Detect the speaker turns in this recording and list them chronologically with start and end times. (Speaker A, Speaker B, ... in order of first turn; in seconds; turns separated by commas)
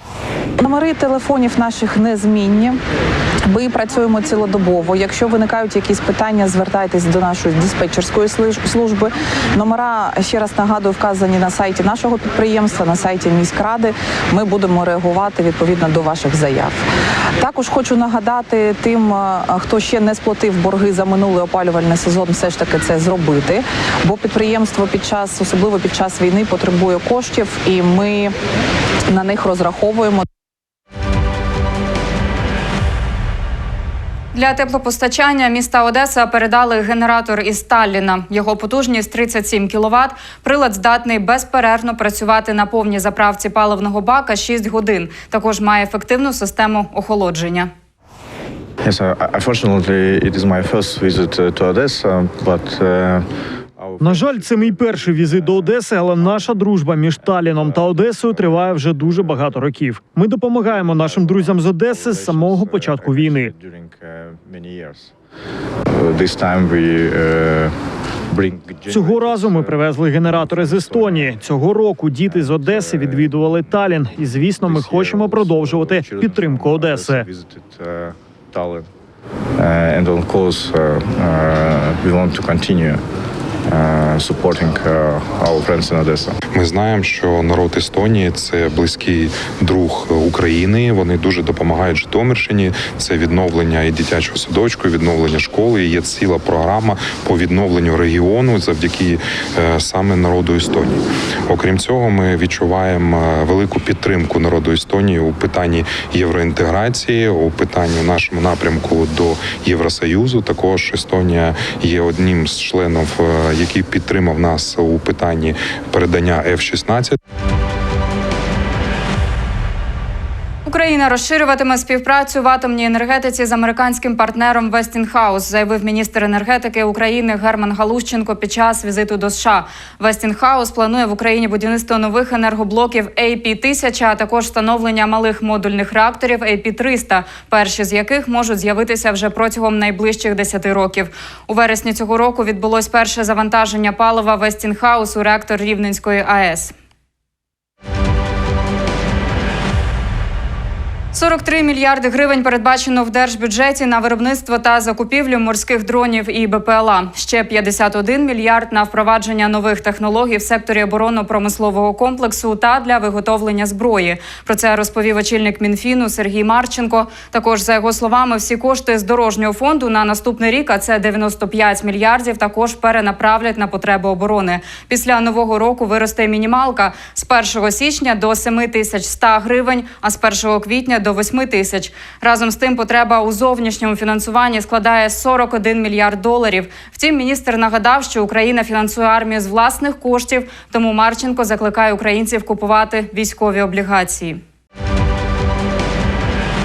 Speaker A: 0.6-2.8, Speaker A: 3.5-16.8, Speaker A: 17.4-28.3, Speaker A: 29.1-30.2, Speaker B: 34.3-47.7, Speaker C: 48.8-53.2, Speaker C: 53.8-56.7, Speaker D: 54.0-63.5, Speaker C: 57.2-59.6, Speaker C: 60.6-65.1, Speaker C: 65.9-67.7, Speaker C: 68.3-71.4, Speaker D: 68.9-77.2, Speaker C: 72.3-74.1, Speaker C: 74.6-78.9, Speaker C: 79.6-83.0, Speaker C: 83.7-86.4, Speaker E: 86.5-117.2, Speaker B: 120.6-146.7, Speaker B: 151.1-194.4